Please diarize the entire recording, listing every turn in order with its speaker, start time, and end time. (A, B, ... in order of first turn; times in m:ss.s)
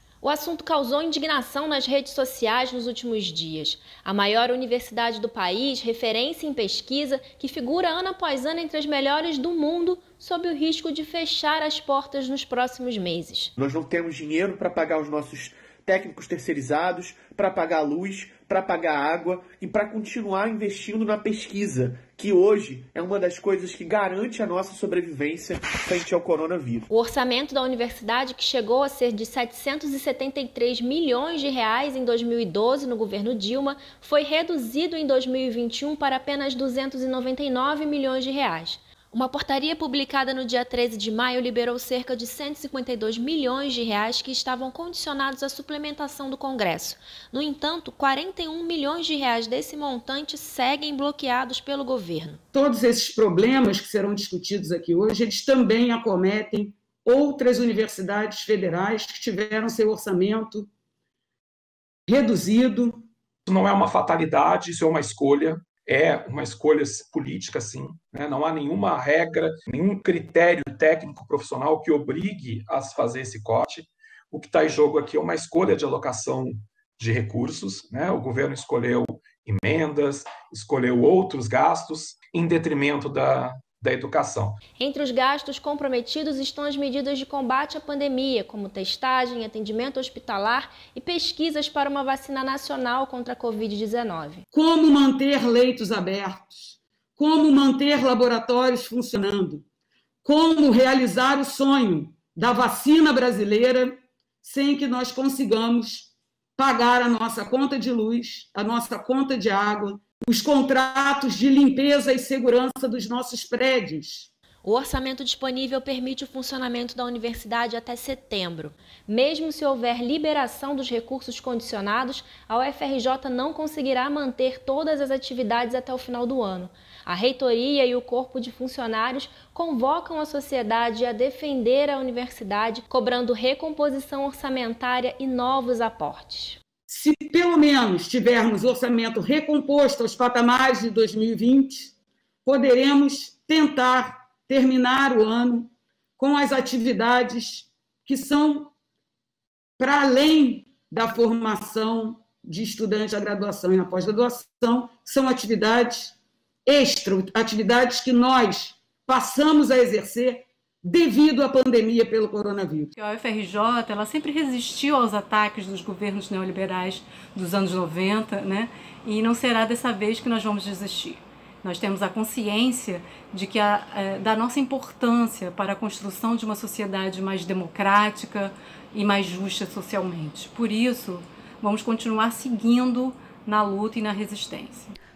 0:00.2-0:13.5 A
0:13.6-0:26.9 B
0:26.9-0:52.4 A
0:52.5-1:00.7 C
1:02.1-1:03.0 C
1:03.4-1:24.6 D
1:24.8-1:34.4 A
1:34.5-1:39.6 C
1:40.2-1:54.3 C
1:54.6-2:16.6 A
2:16.9-2:21.9 C
2:22.4-2:28.7 C
2:29.8-2:42.9 C
2:43.0-3:04.9 E